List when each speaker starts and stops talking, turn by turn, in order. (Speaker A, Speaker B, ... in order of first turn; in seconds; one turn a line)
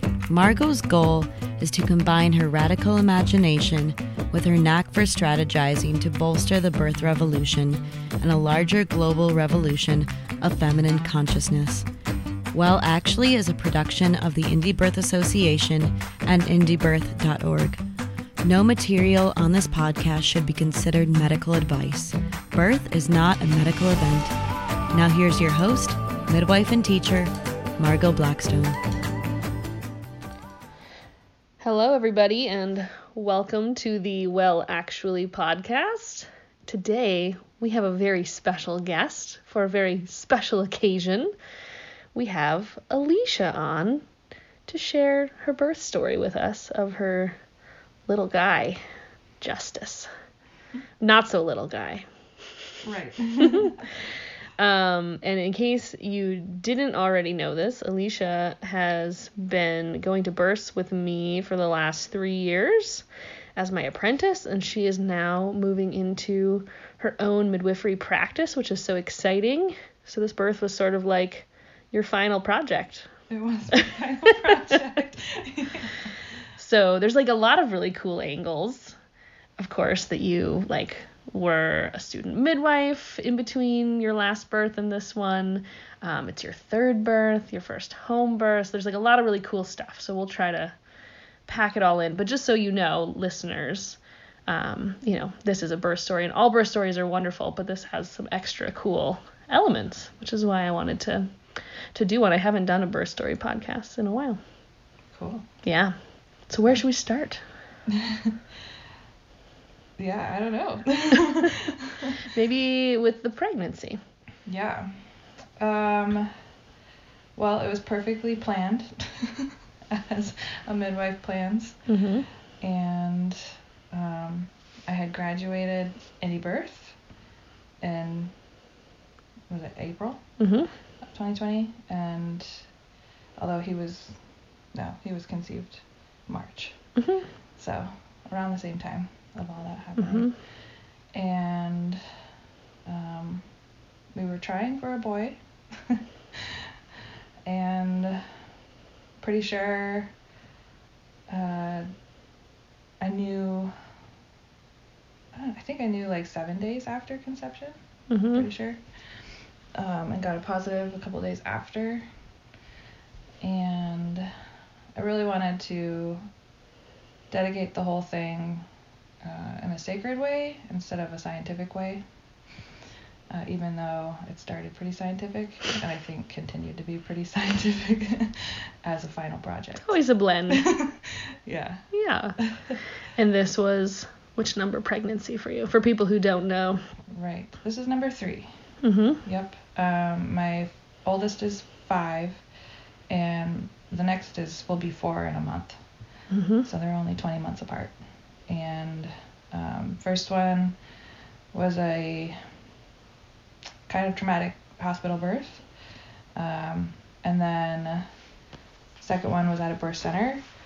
Speaker A: 0.3-11.8
Speaker A: 12.5-17.8
Speaker A: 18.4-24.3
Speaker A: 24.9-28.8
Speaker B: 31.6-41.3
Speaker B: 42.1-44.0
Speaker B: 44.7-47.4
Speaker B: 48.1-48.8
Speaker B: 49.4-50.1
Speaker B: 51.0-52.0
Speaker C: 52.8-53.8
Speaker B: 53.4-53.9
Speaker B: 54.6-63.0
Speaker B: 63.5-73.1
Speaker C: 73.3-76.0
Speaker B: 76.6-79.0
Speaker B: 79.6-90.7
Speaker B: 91.5-104.4
Speaker C: 105.1-105.5
Speaker B: 105.6-107.4
Speaker C: 107.9-108.3
Speaker C: 110.0-112.1
Speaker B: 112.2-114.0
Speaker C: 114.5-114.9
Speaker C: 115.6-116.3
Speaker C: 117.3-121.8
Speaker B: 121.9-122.3
Speaker C: 122.6-127.0
Speaker C: 127.8-128.3
Speaker C: 129.5-130.3
Speaker B: 130.4-130.7
Speaker C: 131.0-132.6
Speaker C: 133.4-134.2
Speaker C: 134.7-136.9
Speaker B: 136.9-137.3
Speaker C: 137.6-140.3
Speaker B: 140.0-140.3
Speaker C: 141.1-142.0
Speaker C: 142.8-143.4
Speaker C: 144.1-146.7
Speaker C: 147.4-148.3
Speaker C: 149.2-150.1
Speaker C: 151.3-151.9
Speaker C: 153.0-153.7
Speaker C: 155.3-157.8
Speaker B: 158.1-158.5
Speaker C: 158.3-158.8
Speaker C: 159.7-162.1
Speaker C: 163.4-164.3
Speaker C: 164.9-166.2
Speaker C: 167.3-168.6
Speaker C: 169.2-172.0
Speaker C: 173.3-180.0
Speaker B: 179.8-180.7
Speaker C: 180.5-181.9
Speaker B: 181.9-182.4
Speaker C: 182.4-182.8
Speaker B: 183.1-186.8
Speaker C: 187.1-188.5
Speaker B: 188.8-189.2
Speaker C: 189.2-192.4
Speaker C: 193.1-195.8
Speaker B: 196.3-196.7
Speaker C: 196.6-197.9
Speaker C: 198.5-200.8
Speaker C: 201.5-202.4
Speaker C: 203.9-205.6
Speaker C: 206.3-208.1
Speaker C: 209.0-210.4